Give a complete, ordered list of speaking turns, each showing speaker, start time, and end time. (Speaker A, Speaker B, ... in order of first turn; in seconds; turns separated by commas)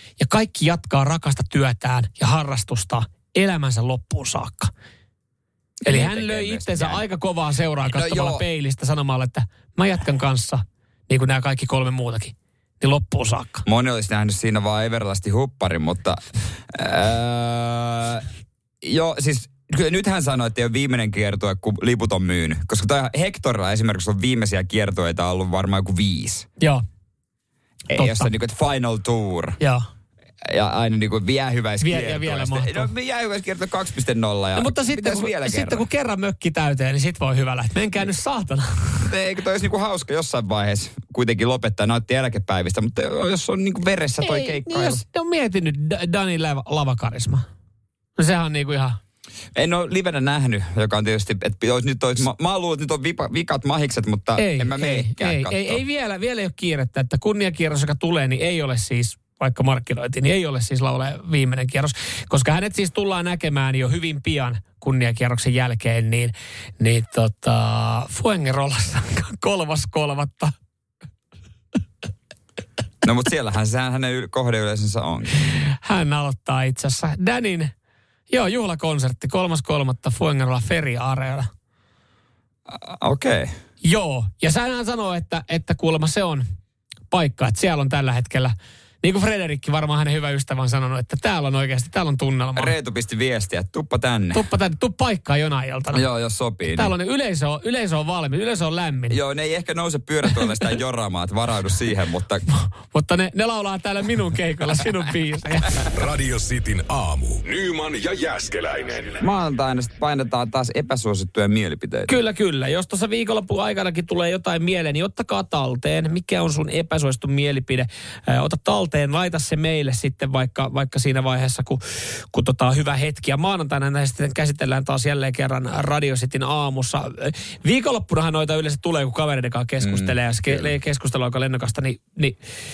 Speaker A: 0.2-4.7, Speaker B: 5.8-7.0, Speaker A: 5.8-13.6, Speaker B: 7.9-8.4, Speaker B: 13.7-18.2, Speaker B: 18.8-26.5, Speaker B: 27.9-29.6, Speaker A: 27.9-28.3, Speaker B: 30.4-35.8, Speaker A: 31.8-32.9, Speaker A: 34.5-39.1, Speaker B: 39.0-45.0, Speaker A: 44.2-47.5, Speaker A: 48.2-49.0, Speaker B: 49.5-55.8, Speaker A: 54.4-70.5, Speaker B: 73.0-75.3, Speaker A: 75.8-77.7, Speaker A: 78.3-81.5, Speaker B: 82.7-83.5, Speaker A: 83.8-86.5, Speaker A: 87.1-92.7, Speaker B: 92.5-94.4, Speaker A: 94.3-96.0, Speaker B: 95.9-96.9, Speaker A: 96.7-99.2, Speaker B: 99.1-102.4, Speaker A: 102.5-105.7, Speaker C: 105.9-109.2, Speaker B: 109.2-112.1, Speaker A: 112.1-132.4, Speaker B: 129.8-130.7